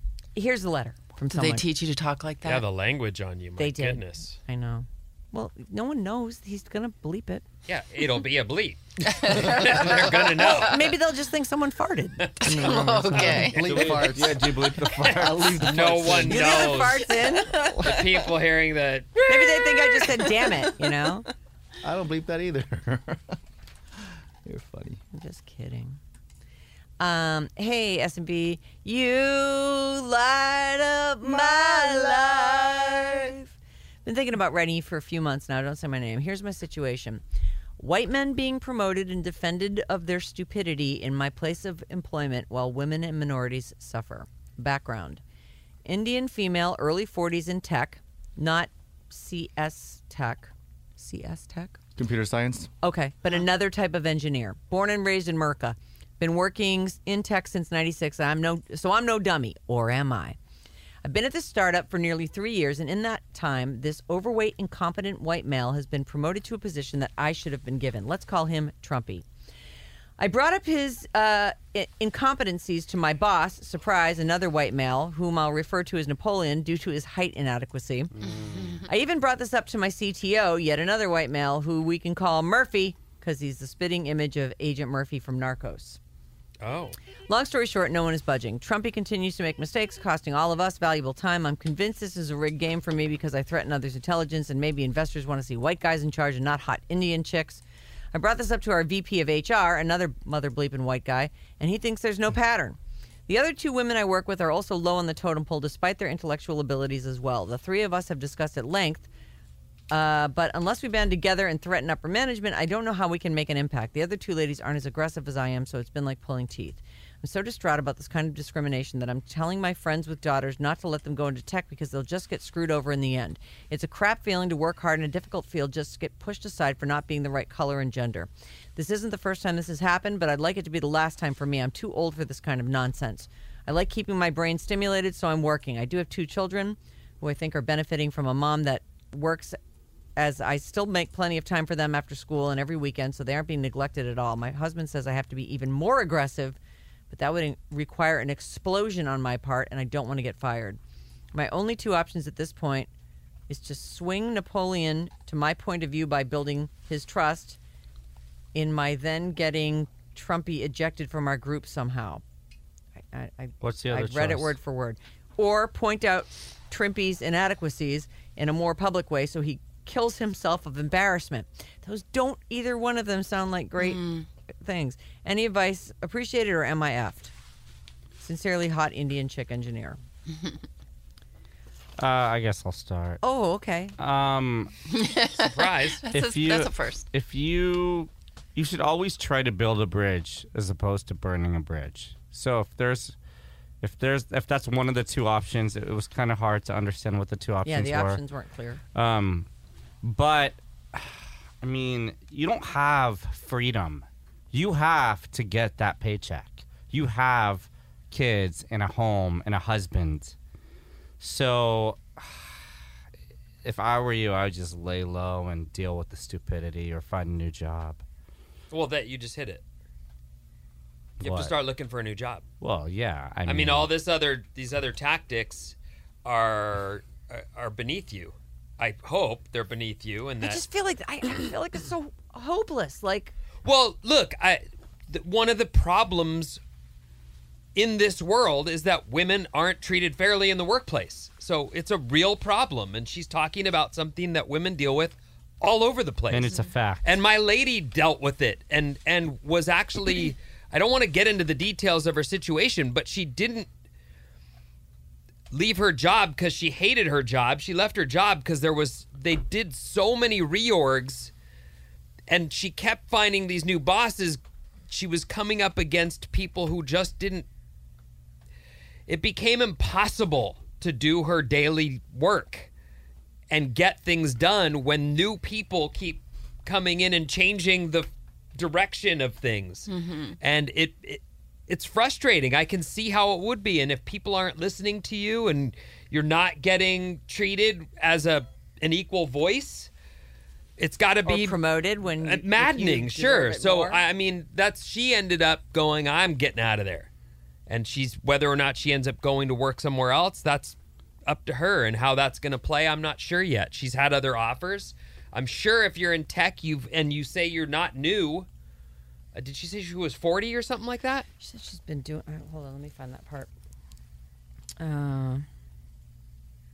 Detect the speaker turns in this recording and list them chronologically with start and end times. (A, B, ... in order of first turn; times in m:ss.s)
0:00.4-0:01.6 A
0:01.3-0:02.7 B
0:02.4-0:04.4 C
0:03.6-0:07.4 A
0:07.7-0:10.8 C
0:09.1-0:10.8 B
0:09.6-0:09.8 D
0:10.4-0:13.6 A
0:12.2-0:14.2 C
0:12.4-0:13.6 B
0:13.4-0:14.6 D
0:13.6-0:16.3 E
0:14.9-0:17.1 C
0:15.1-0:16.4 D
0:16.3-0:17.5 A
0:17.2-0:18.3 B
0:17.6-0:18.0 D
0:17.8-0:19.2 C
0:19.2-0:21.1 B
0:19.3-0:21.3 A
0:21.8-0:23.4 D
0:24.4-0:25.0 D
0:25.1-0:26.0 A
0:27.0-0:33.5 A
0:31.5-0:32.3 D
0:34.0-0:37.2 A
0:37.8-0:45.2 A
0:45.9-0:51.8 A
0:52.0-0:52.7 D
0:52.8-1:00.4 A
1:01.0-1:09.2 A
1:10.2-1:18.1 A
1:18.1-1:18.8 E
1:18.3-1:18.8 B
1:18.8-1:26.0 A
1:26.6-1:27.0 C
1:27.3-1:37.6 A
1:38.1-1:49.1 A
1:49.9-2:19.6 A
2:20.2-2:26.6 A
2:27.1-2:30.8 A
2:31.3-2:32.9 A
2:33.5-2:37.6 A
2:38.5-2:42.2 A
2:43.1-2:54.0 A
2:43.6-2:44.6 E
2:53.8-2:54.3 B
2:54.6-2:57.3 A
2:58.2-3:00.0 A
3:02.0-3:03.2 E
3:03.2-3:04.0 A
3:04.0-3:04.7 E
3:04.9-3:07.0 B
3:05.4-3:06.0 C
3:06.1-3:13.2 E
3:13.8-3:18.2 E
3:17.6-3:18.8 A
3:18.9-3:19.5 E
3:20.0-3:30.4 E
3:31.2-3:32.7 E
3:33.6-3:38.0 E
3:38.7-3:39.6 C
3:41.2-3:41.6 E
3:41.2-3:42.4 C
3:42.6-3:43.9 E
3:43.5-3:50.6 C
3:50.4-3:53.3 A
3:53.6-3:56.6 C
3:57.8-4:13.7 C
4:06.3-4:07.2 E
4:15.5-4:21.3 C
4:22.3-4:27.5 C
4:29.1-4:32.7 C
4:33.5-4:39.9 C
4:39.9-4:40.4 B
4:40.4-4:49.9 C
4:50.8-4:57.1 C
4:51.2-4:54.0 A
4:57.7-5:08.5 C
5:09.4-5:11.3 C
5:11.4-5:13.5 A
5:14.8-5:15.5 A